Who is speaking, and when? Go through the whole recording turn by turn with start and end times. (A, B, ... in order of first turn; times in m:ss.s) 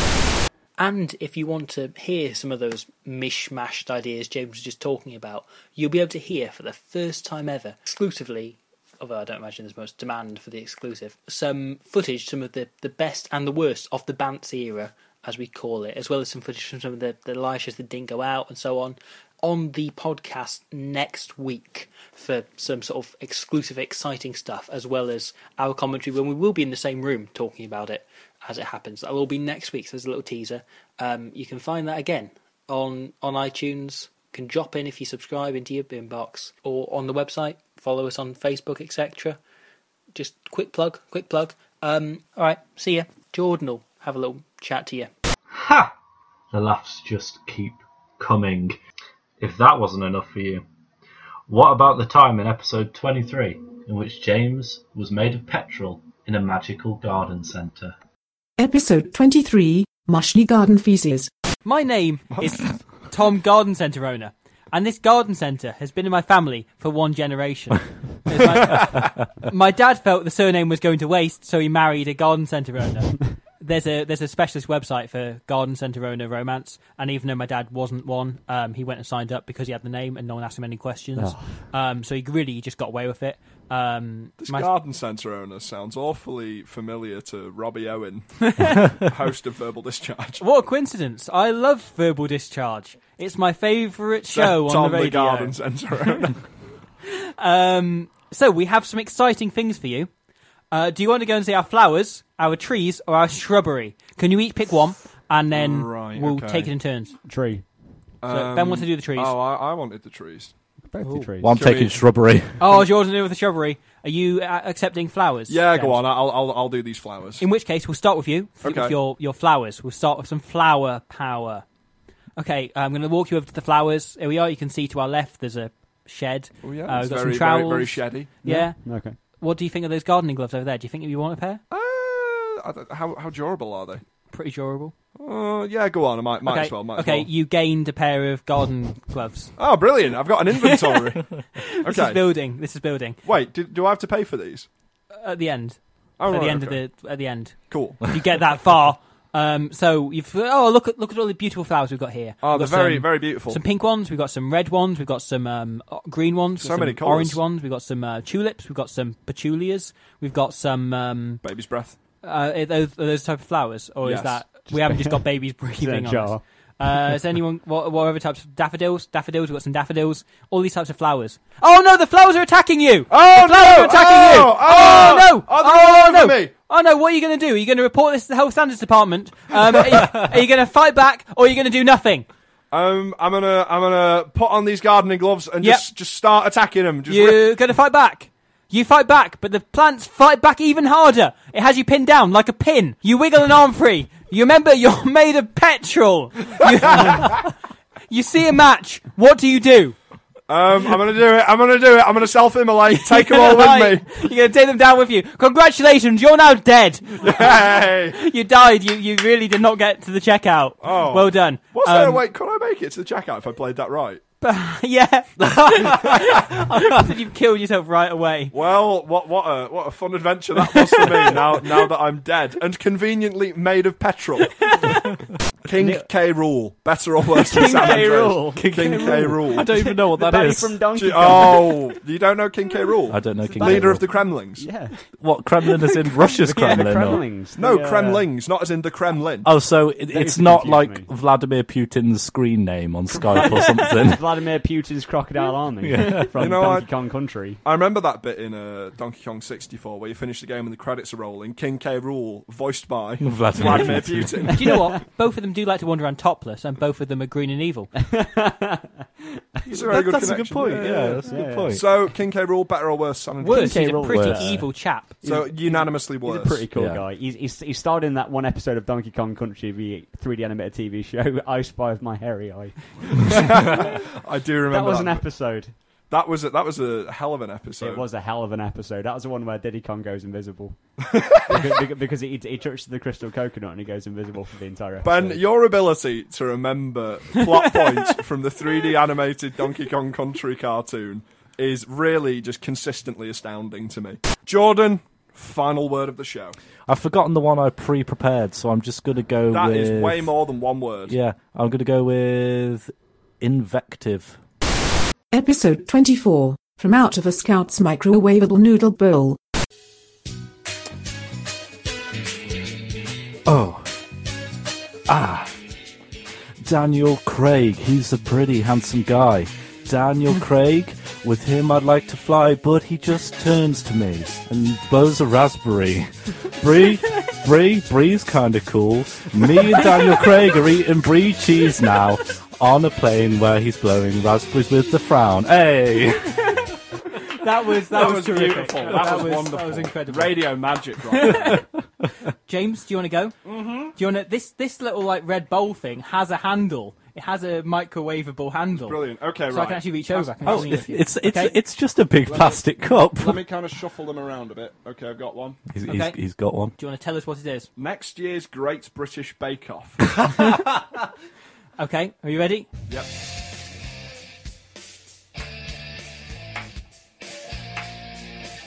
0:00.8-0:39.4 A
0:40.1-0:45.1 A
0:45.5-0:45.9 B
0:46.5-0:48.8 B
0:49.4-0:50.6 B
0:51.5-0:58.0 B
0:58.6-1:01.3 C
1:01.6-1:24.7 D
1:21.2-1:21.5 E
1:24.4-1:30.4 F
1:28.4-1:28.9 D
1:30.4-1:35.6 D
1:34.3-1:36.4 F
1:37.4-1:40.1 D
1:40.7-1:47.2 D
1:45.5-1:46.7 F
1:47.2-1:47.6 E
1:48.2-1:50.5 F
1:48.3-1:49.4 D
1:50.9-1:51.6 E
1:51.4-1:52.6 G
1:51.6-1:52.0 F
1:52.6-1:56.0 D
1:55.5-1:57.4 F
1:57.4-2:01.6 D
1:58.6-1:59.0 F
2:02.4-2:11.6 D
2:06.6-2:08.3 F
2:08.4-2:09.2 E
2:11.7-2:14.0 F
2:14.3-2:14.9 D
2:15.2-2:17.3 F
2:16.4-2:19.6 D
2:19.6-2:22.2 F
2:21.6-2:23.2 D
2:23.2-2:24.7 F
2:25.1-2:41.4 D
2:26.2-2:26.8 F
2:27.7-2:28.1 F
2:32.4-2:33.6 F
2:36.6-2:37.4 F
2:41.4-2:42.0 F
2:42.2-3:02.3 D
2:44.0-2:44.4 F
2:44.7-2:46.4 E
2:53.1-2:56.5 F
3:02.7-3:07.4 F
3:05.6-3:05.9 D
3:07.1-3:17.5 D
3:18.1-3:20.0 D
3:20.5-3:24.1 F
3:23.1-3:32.2 D
3:27.2-3:28.2 F
3:30.8-3:34.2 F
3:34.4-3:38.5 D
3:38.5-3:44.9 F
3:40.7-3:41.4 D
3:45.6-3:49.7 F
3:45.8-3:46.1 E
3:47.4-3:52.0 E
3:47.6-3:50.8 G
3:50.9-3:54.7 F
3:53.1-3:54.1 G
3:53.3-3:55.0 E
3:55.2-3:57.2 G
3:55.7-3:58.3 E
3:57.6-3:59.5 F
3:59.4-4:04.3 G
4:00.1-4:01.1 E
4:03.2-4:07.6 E
4:05.8-4:06.3 G
4:06.4-4:14.8 F
4:13.2-4:14.7 G
4:14.5-4:17.9 D
4:18.0-4:19.1 E
4:19.7-4:24.1 F
4:19.7-4:21.9 G
4:20.8-4:22.0 E
4:23.4-4:25.2 D
4:23.4-4:33.9 E
4:24.1-4:24.6 G
4:25.2-4:26.7 F
4:26.7-4:27.0 G
4:33.2-4:35.4 F
4:34.7-4:35.8 E
4:36.1-4:38.1 F
4:37.8-4:40.9 E
4:41.1-4:41.7 F
4:41.5-4:45.4 E
4:45.0-4:56.6 F
4:56.9-5:00.3 G
4:59.5-5:01.2 F
5:01.1-5:04.4 G
5:05.3-5:09.4 C
5:13.5-5:13.9 G
5:15.1-5:15.5 G
5:16.6-5:36.5 G
5:37.3-5:40.5 D
5:37.9-5:41.6 F
5:41.1-5:41.6 D
5:42.5-5:43.4 D
5:43.4-5:44.0 F
5:44.0-5:51.6 D
5:48.8-5:50.8 F
5:50.4-5:53.4 G
5:52.3-5:55.6 F
5:55.7-5:56.7 G
5:55.9-5:56.2 D
5:56.8-5:57.7 D
5:57.8-6:00.6 F
6:00.4-6:00.7 D
6:01.8-6:02.7 D